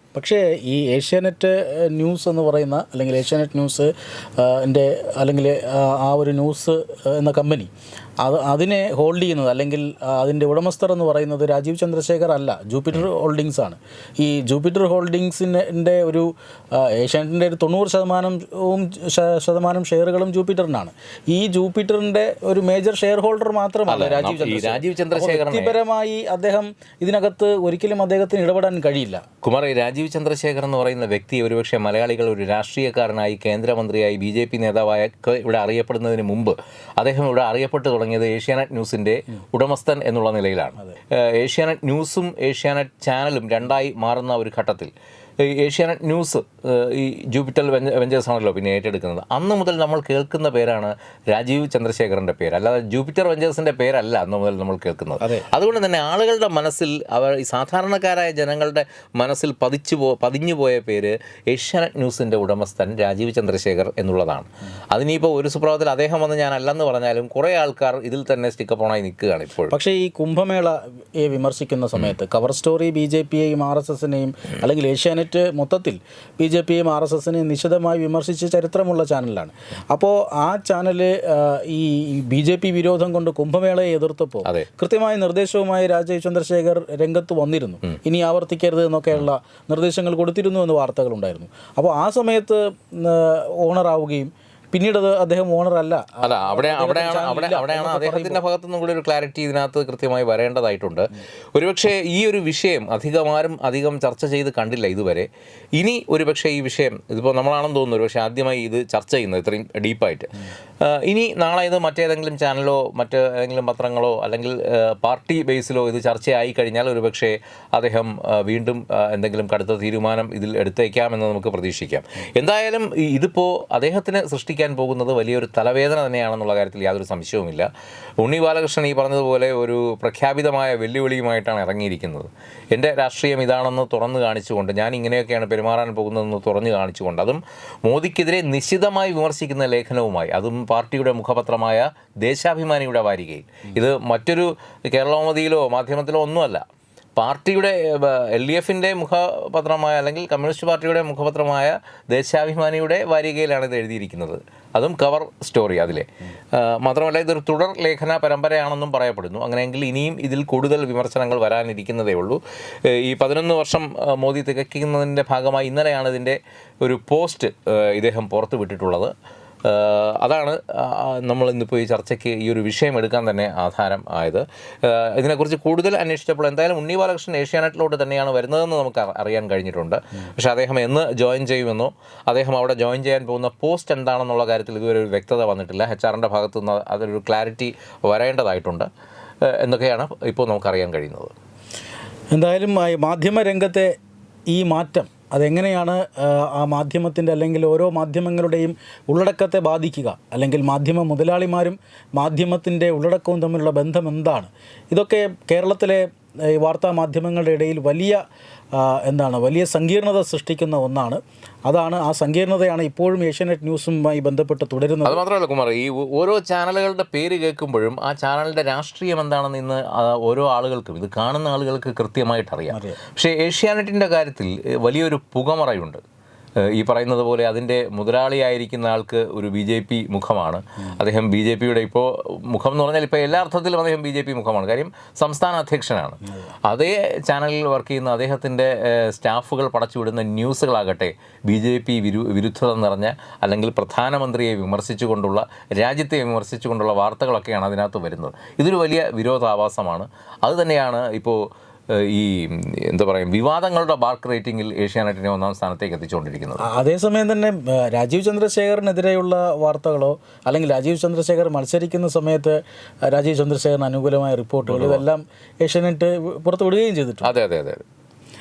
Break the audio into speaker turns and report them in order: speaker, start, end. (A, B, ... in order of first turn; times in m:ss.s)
0:00.2-0:29.2 A
0:23.9-0:25.8 B
0:29.4-1:09.7 B
1:09.7-1:38.4 A
1:36.2-2:07.7 B
2:08.2-2:26.6 B
2:27.2-2:49.1 B
2:49.6-3:08.9 B
3:09.5-3:11.3 B
3:12.3-3:13.9 A
3:14.5-3:28.2 A
3:28.8-3:35.2 A
3:35.0-3:46.0 B
3:42.7-3:43.0 A
3:46.6-4:16.6 B
4:16.6-4:27.3 A
4:24.6-4:25.0 B
4:27.2-4:27.8 B